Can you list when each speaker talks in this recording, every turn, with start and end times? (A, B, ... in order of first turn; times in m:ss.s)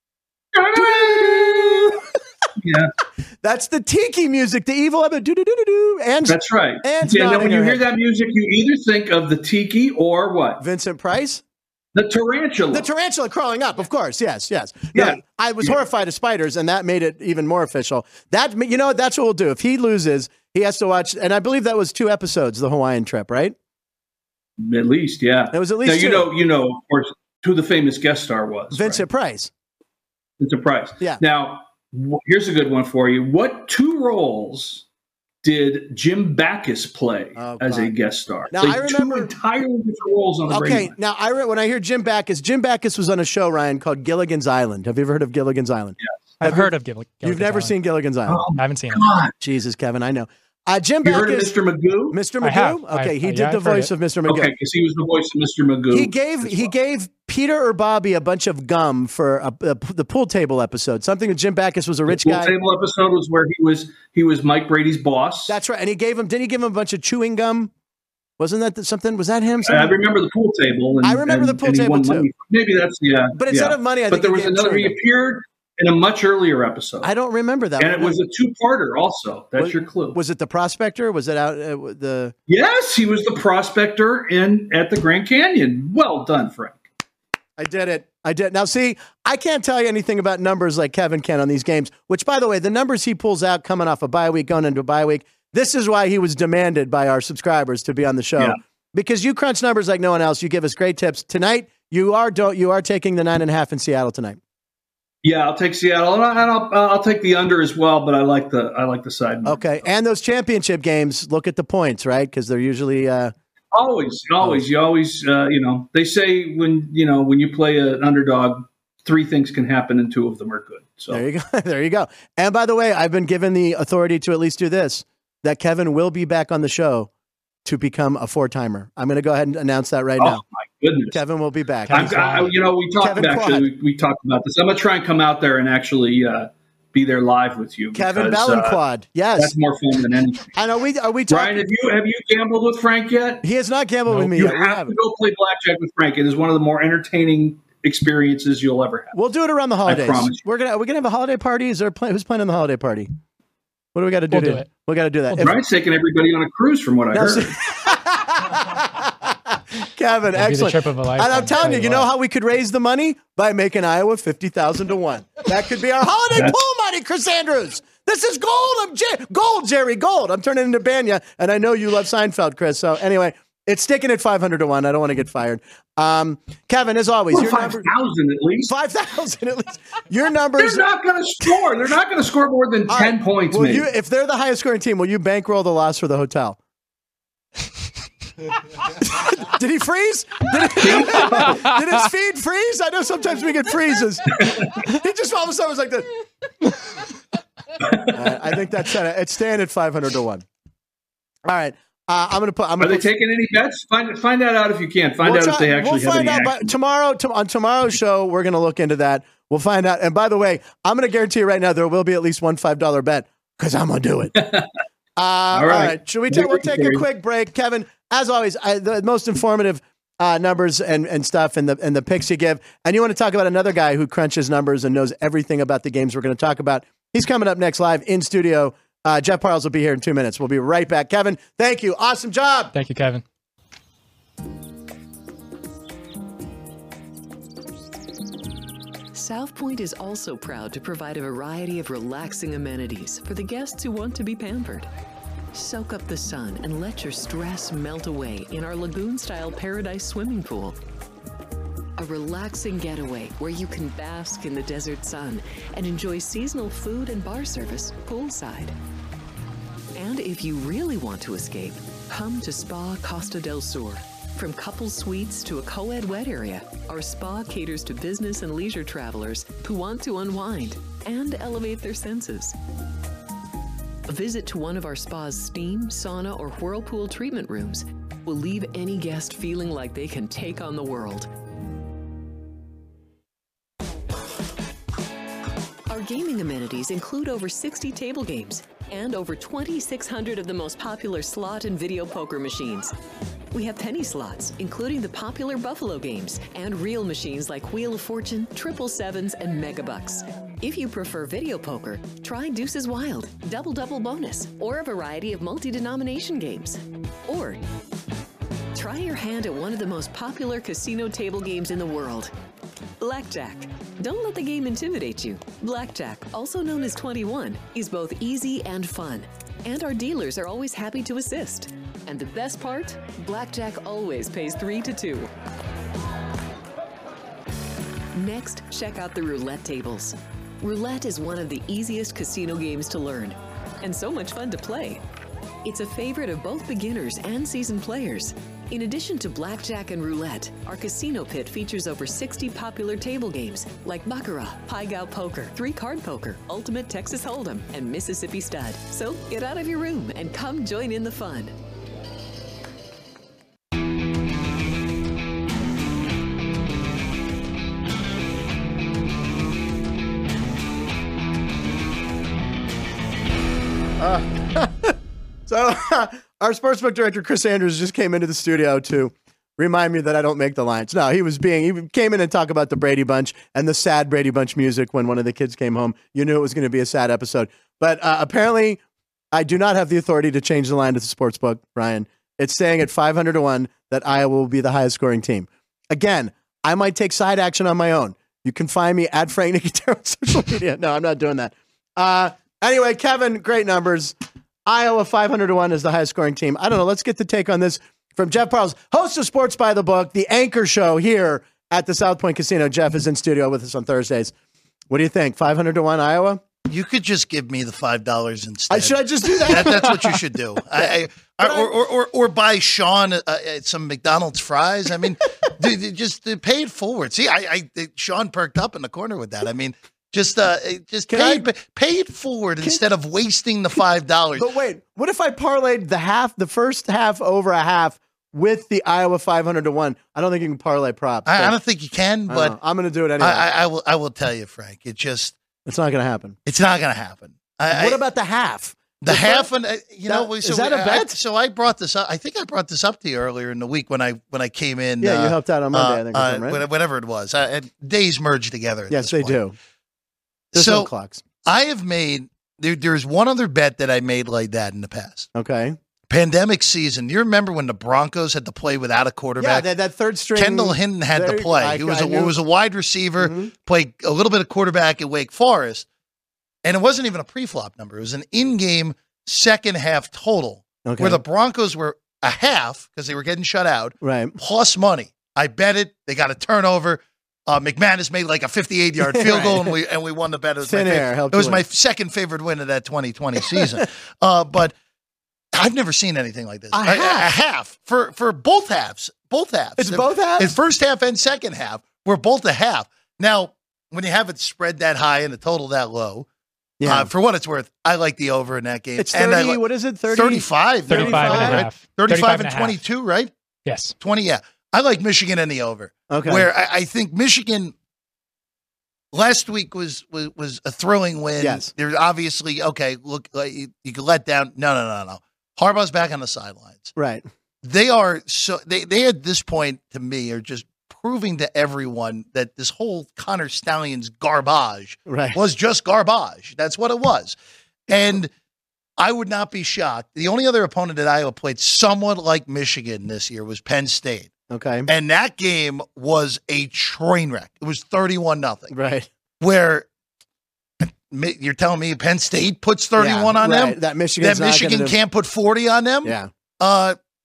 0:00.5-0:02.0 A
0:00.7-0:02.0 B
0:02.6-0:02.9 A
0:03.4-0:07.8 B
0:06.3-0:10.6 A
0:10.6-0:11.4 B
0:11.9-0:12.9 A
0:12.7-0:23.5 B
0:14.9-0:15.8 A
0:24.6-0:29.0 A
0:25.5-0:26.3 B
0:28.7-0:29.5 B
0:30.4-0:34.8 A
0:35.4-0:40.9 A
0:37.4-0:37.9 B
0:38.5-0:39.3 B
0:40.5-0:46.7 B
0:46.4-0:47.7 C
0:47.2-0:48.4 B
0:48.3-0:49.3 A
0:48.6-0:49.0 C
0:49.4-0:51.5 B
0:51.0-0:52.2 A
0:52.1-0:54.5 B
0:52.4-0:53.9 C
0:54.3-0:56.7 A
0:55.9-1:02.5 B
1:02.1-1:05.5 A
1:05.5-1:07.7 B
1:08.4-1:10.0 B
1:09.6-1:17.1 A
1:11.0-1:12.3 B
1:13.3-1:15.0 B
1:17.0-1:18.2 B
1:17.8-1:20.2 A
1:19.6-1:22.3 B
1:22.5-1:26.8 A
1:27.6-1:44.4 B
1:45.2-1:49.9 A
1:49.4-1:53.3 B
1:53.7-2:01.2 A
2:01.1-2:07.1 B
2:07.6-2:10.4 B
2:10.2-2:11.2 A
2:11.1-2:12.5 B
2:11.9-2:12.5 C
2:11.9-2:18.8 A
2:13.0-2:13.7 B
2:17.9-2:19.5 B
2:19.4-2:20.6 A
2:20.6-2:21.6 B
2:21.3-2:23.4 A
2:23.4-2:24.9 B
2:24.1-2:29.2 A
2:29.1-2:33.1 B
2:29.8-2:30.4 A
2:33.9-2:35.6 B
2:34.3-2:34.7 C
2:35.4-2:37.6 A
2:37.1-2:57.9 B
2:40.3-2:42.1 C
2:57.3-2:58.7 A
2:58.7-3:00.9 B
3:00.6-3:03.9 A
3:02.9-3:06.6 B
3:09.0-3:16.1 B
3:10.8-3:11.6 A
3:14.3-3:14.8 A
3:17.8-3:18.6 A
3:18.1-3:20.4 B
3:21.4-3:23.1 B
3:22.8-3:26.7 A
3:25.2-3:34.4 B
3:34.4-3:34.7 A
3:35.2-3:52.7 B
3:35.5-3:37.0 A
3:52.7-3:53.2 C
3:59.1-4:04.9 D
4:05.5-4:10.8 D
4:12.0-4:18.7 D
4:19.9-4:32.6 D
4:34.1-4:41.3 D
4:45.9-4:52.9 D
4:53.5-5:07.6 D
5:08.7-5:12.3 D
5:13.0-5:25.3 D
5:28.1-5:35.0 D
5:35.6-5:51.5 D
6:04.0-6:05.0 B
6:05.5-6:18.8 B
6:19.3-6:34.1 B
6:34.6-6:44.3 B
6:44.9-6:46.4 B
6:46.7-7:04.5 E
6:48.7-6:50.2 B
6:51.4-6:51.7 B
7:01.1-7:01.5 B
7:04.4-7:11.6 B
7:11.2-7:12.6 E
7:12.3-7:13.4 B
7:13.2-7:15.4 E
7:15.6-7:16.4 B
7:16.4-7:18.0 E
7:17.7-7:19.5 B
7:19.0-7:29.4 E
7:20.1-7:21.2 B
7:25.0-7:26.6 B
7:28.9-7:29.5 B
7:30.5-7:30.9 E
7:30.5-7:31.2 B
7:31.4-7:35.3 E
7:35.3-7:35.8 B
7:36.1-7:39.7 E
7:39.4-7:42.3 B
7:40.3-7:45.8 E
7:43.2-7:43.5 B
7:46.6-8:04.7 E
7:50.8-7:51.2 B
7:54.0-7:54.4 B
7:59.0-7:59.7 B
8:00.6-8:01.6 B
8:05.5-8:16.2 E
8:06.7-8:07.3 B
8:09.8-8:10.6 B
8:16.8-8:17.1 B
8:16.8-8:23.3 E
8:19.0-8:21.6 B
8:20.9-8:22.8 C
8:23.6-8:23.9 C
8:24.0-8:27.7 E
8:26.1-8:26.5 B
8:29.1-8:36.9 E
8:31.4-8:31.7 B
8:37.0-8:37.2 B
8:37.6-8:47.4 E
8:45.1-8:45.4 B
8:47.9-8:48.3 E
8:49.0-8:54.3 E
8:54.5-8:54.9 B
8:54.9-8:58.7 E
8:58.7-8:59.1 B
8:59.4-8:59.9 E
9:00.8-9:07.0 E
9:03.0-9:05.0 B
9:06.0-9:06.3 B